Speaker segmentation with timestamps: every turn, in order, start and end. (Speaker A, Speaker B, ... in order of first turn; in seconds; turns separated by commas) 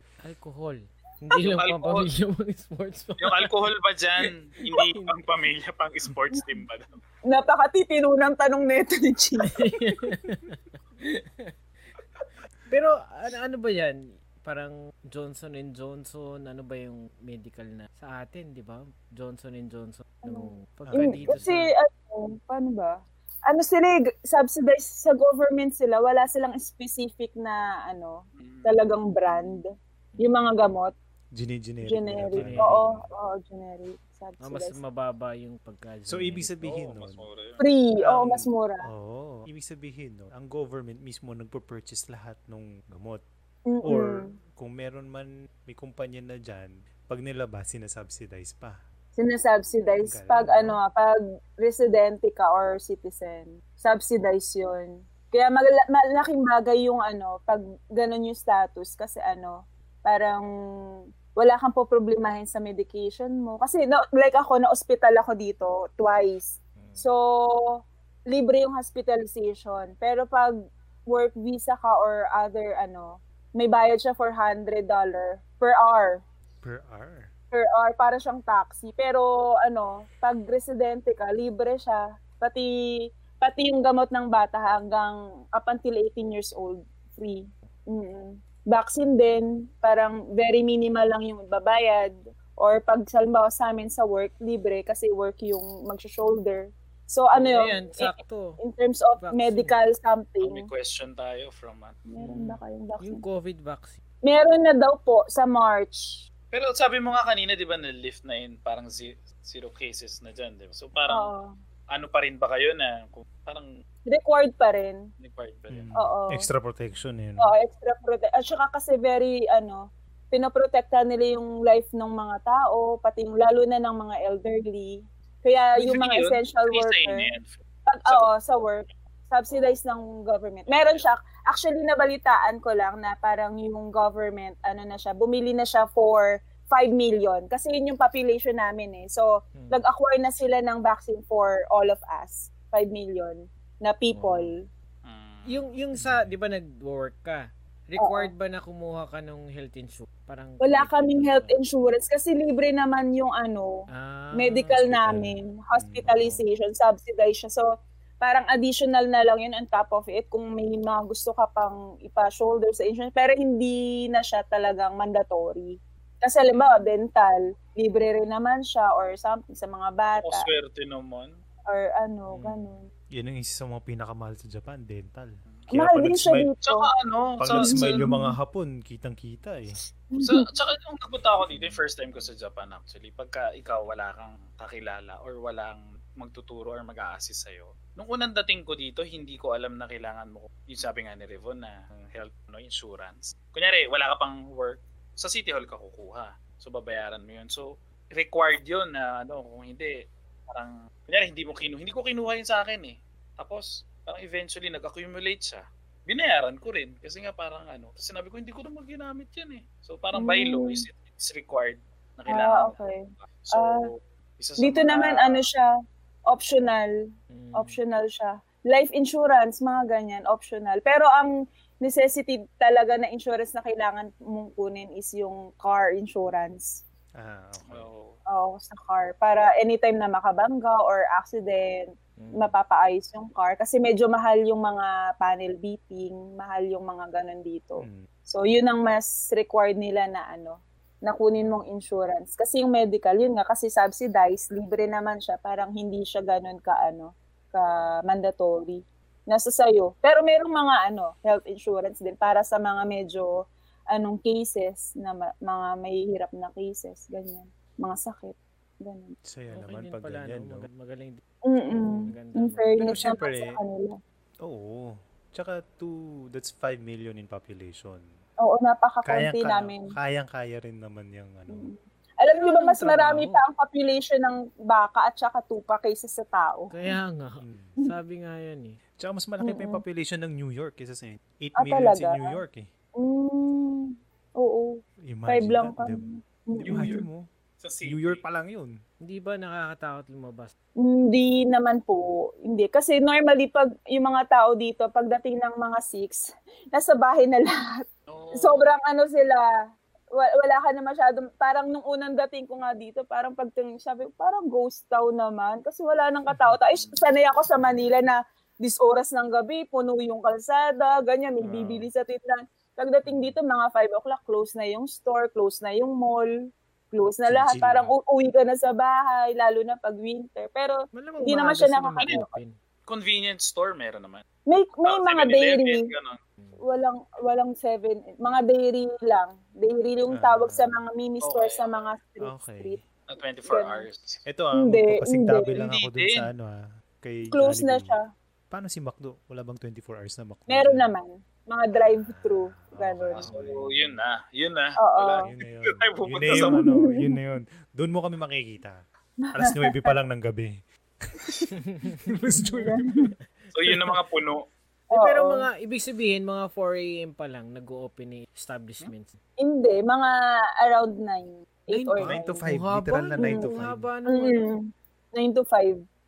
Speaker A: 0.2-3.6, Speaker B: 1.4-2.1, Speaker B: 3.2-7.0, Speaker A: 4.7-5.1, Speaker C: 7.2-9.7, Speaker A: 9.4-11.5, Speaker A: 12.7-21.7, Speaker C: 20.2-30.9, Speaker D: 20.9-21.4, Speaker B: 28.4-28.8, Speaker A: 30.1-30.5, Speaker D: 31.4-33.1, Speaker C: 31.8-34.8, Speaker A: 32.3-32.8, Speaker A: 34.4-36.6, Speaker D: 36.1-37.2, Speaker B: 36.6-37.6, Speaker C: 37.6-38.9, Speaker D: 38.0-43.2, Speaker C: 43.7-44.3, Speaker D: 43.8-48.8, Speaker C: 49.1-60.5, Speaker D: 50.0-50.8, Speaker C: 61.3-70.6, Speaker A: 66.8-67.0, Speaker C: 71.1-76.2, Speaker D: 76.6-77.3, Speaker C: 77.5-100.7, Speaker A: 97.3-98.6, Speaker A: 99.2-99.8, Speaker B: 100.4-102.0, Speaker C: 102.1-103.2, Speaker A: 102.2-104.0, Speaker C: 104.2-106.2, Speaker B: 106.5-111.3, Speaker C: 111.1-111.5, Speaker B: 111.9-113.7, Speaker C: 114.1-115.1, Speaker B: 115.2-115.9, Speaker D: 115.7-117.5, Speaker C: 115.9-116.5, Speaker C: 117.4-127.3, Speaker B: 125.8-128.3, Speaker C: 127.9-144.6, Speaker B: 129.5-129.8, Speaker B: 130.7-131.1, Speaker A: 139.5-139.8, Speaker A: 144.1-144.5, Speaker B: 145.0-145.7, Speaker A: 145.5-151.5, Speaker D: 145.9-146.3, Speaker C: 148.0-148.3, Speaker C: 150.6-157.7, Speaker A: 153.9-155.3, Speaker D: 155.7-156.4, Speaker C: 158.2-170.5, Speaker B: 166.5-166.9, Speaker B: 170.2-171.3, Speaker C: 171.7-172.9, Speaker A: 172.3-172.8, Speaker D: 173.1-176.5, Speaker C: 175.7-176.9, Speaker B: 176.7-178.0, Speaker D: 177.4-179.8, Speaker C: 177.6-178.3, Speaker C: 180.1-180.4, Speaker B: 180.2-212.8, Speaker C: 210.1-210.8, Speaker C: 212.3-213.8, Speaker B: 213.4-215.5, Speaker C: 214.6-215.7, Speaker C: 216.3-216.9, Speaker A: 217.3-217.8, Speaker C: 217.5-221.3, Speaker C: 221.8-226.8, Speaker D: 227.2-227.9, Speaker B: 227.7-228.2, Speaker C: 228.3-259.2, Speaker A: 232.2-232.5, Speaker D: 237.8-238.0, Speaker D: 259.2-260.7, Speaker A: 259.5-263.2, Speaker C: 261.4-264.0, Speaker D: 262.8-263.6, Speaker D: 264.4-268.0, Speaker C: 268.4-269.9, Speaker D: 269.0-271.7, Speaker C: 271.5-276.7, Speaker A: 272.4-273.4, Speaker A: 276.7-278.8, Speaker D: 277.4-277.8, Speaker D: 279.0-282.7, Speaker C: 279.4-279.8, Speaker C: 281.6-282.4, Speaker C: 283.0-287.0, Speaker D: 285.1-287.2, Speaker B: 286.6-287.0, Speaker B: 287.6-288.2, Speaker D: 287.8-288.7, Speaker A: 289.0-290.5, Speaker C: 290.8-299.5, Speaker B: 298.1-298.7, Speaker C: 300.1-322.3, Speaker B: 306.8-307.1, Speaker D: 311.4-311.9, Speaker D: 317.3-317.9, Speaker A: 320.9-322.6, Speaker B: 322.9-324.2, Speaker C: 324.4-325.9, Speaker B: 324.8-326.2, Speaker C: 326.6-332.8, Speaker D: 330.1-330.8, Speaker B: 331.2-331.9, Speaker D: 332.2-332.8, Speaker B: 333.1-334.2, Speaker C: 333.5-333.9, Speaker D: 334.2-338.0, Speaker C: 334.6-335.6, Speaker B: 335.5-336.3, Speaker C: 337.3-338.0, Speaker D: 338.5-340.9, Speaker C: 340.5-343.2, Speaker D: 341.7-344.0, Speaker B: 343.1-346.7, Speaker A: 343.2-343.5, Speaker C: 344.8-345.3, Speaker D: 345.2-348.8, Speaker C: 346.3-347.2, Speaker C: 349.2-349.9, Speaker D: 349.3-350.5, Speaker D: 351.0-352.8, Speaker A: 351.5-352.7, Speaker C: 352.4-353.1, Speaker B: 353.5-354.4, Speaker C: 354.9-355.5, Speaker A: 354.9-359.2, Speaker C: 359.4-362.1, Speaker A: 361.7-364.5, Speaker D: 362.0-363.9, Speaker C: 363.2-363.5, Speaker C: 364.1-365.8